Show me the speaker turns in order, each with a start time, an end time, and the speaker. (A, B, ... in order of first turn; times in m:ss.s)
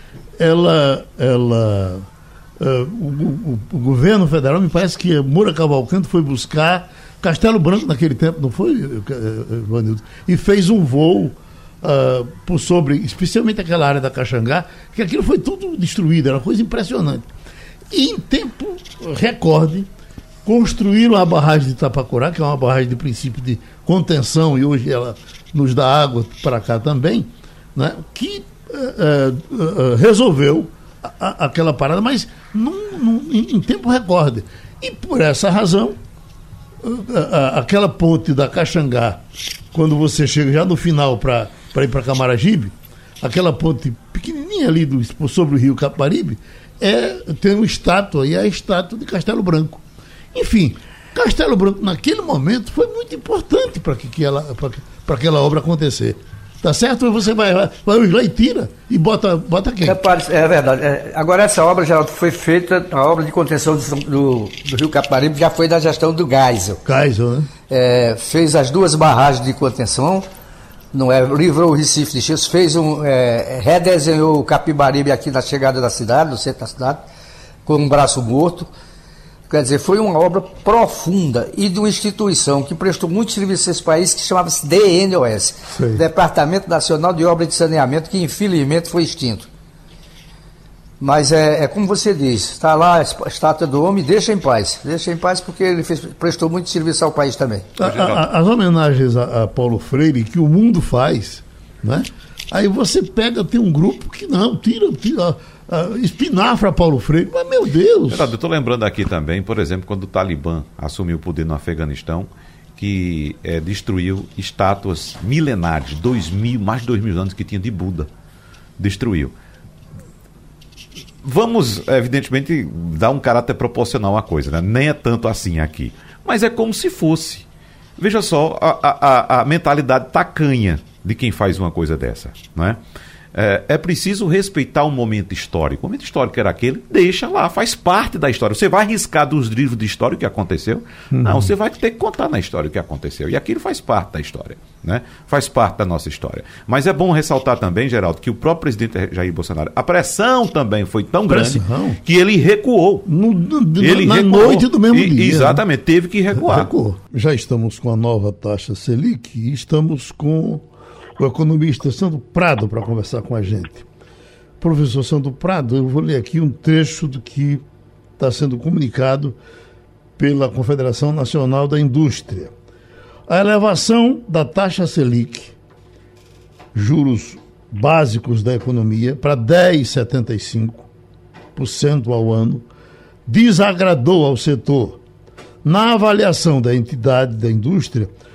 0:00.4-0:02.1 A
0:02.6-0:17.3 A
0:17.9-0:19.9 A
0:20.4-0:36.0 A
0:36.8-0:39.2 A
0:39.7-0:49.8 A
0:50.3-1:00.0 A
0:59.8-1:06.8 B
1:06.8-1:07.5 A
1:07.7-1:10.3 B
1:10.9-1:17.0 B
1:17.6-1:18.7 B
1:19.5-1:29.5 B
1:25.7-1:26.0 A
1:31.0-1:37.7 B
1:37.8-1:48.3 A
1:37.8-1:38.2 C
1:48.1-1:58.1 C
1:58.8-1:59.3 C
2:01.2-2:07.5 C
2:08.0-2:12.8 C
2:13.3-2:33.0 C
2:21.1-2:21.5 A
2:31.3-2:32.0 A
2:33.1-2:35.6 A
2:33.8-2:36.7 C
2:36.3-2:40.6 A
2:41.2-2:43.9 A
2:44.6-2:47.6 A
2:48.2-2:49.4 A
2:50.2-2:52.5 A
2:53.3-2:55.6 A
2:56.7-3:00.9 A
3:01.6-3:02.6 A
3:03.3-3:05.0 A
3:05.6-3:08.1 A